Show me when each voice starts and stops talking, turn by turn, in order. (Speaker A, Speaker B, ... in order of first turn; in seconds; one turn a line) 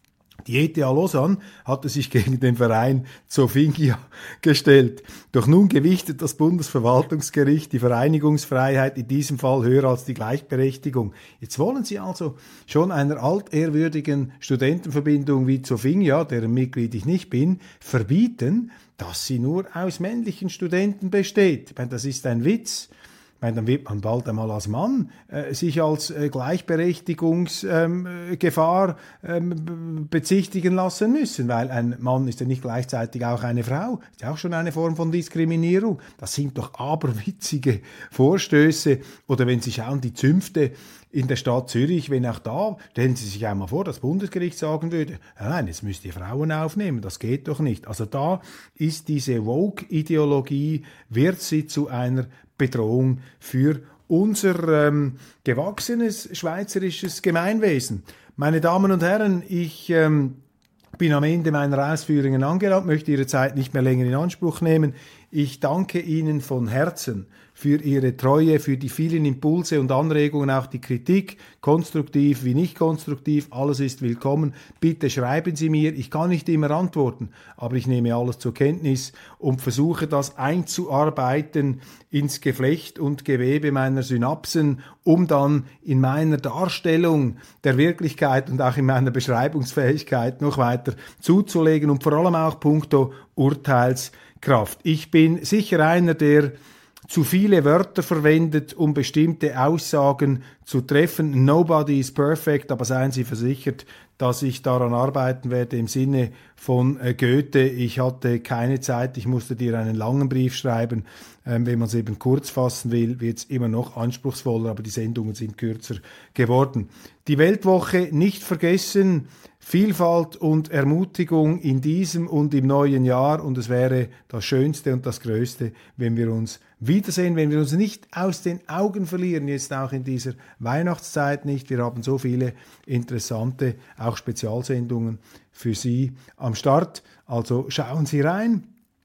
Speaker A: 0.5-60.4
Speaker A: 61.0-96.6
Speaker A: 97.1-138.7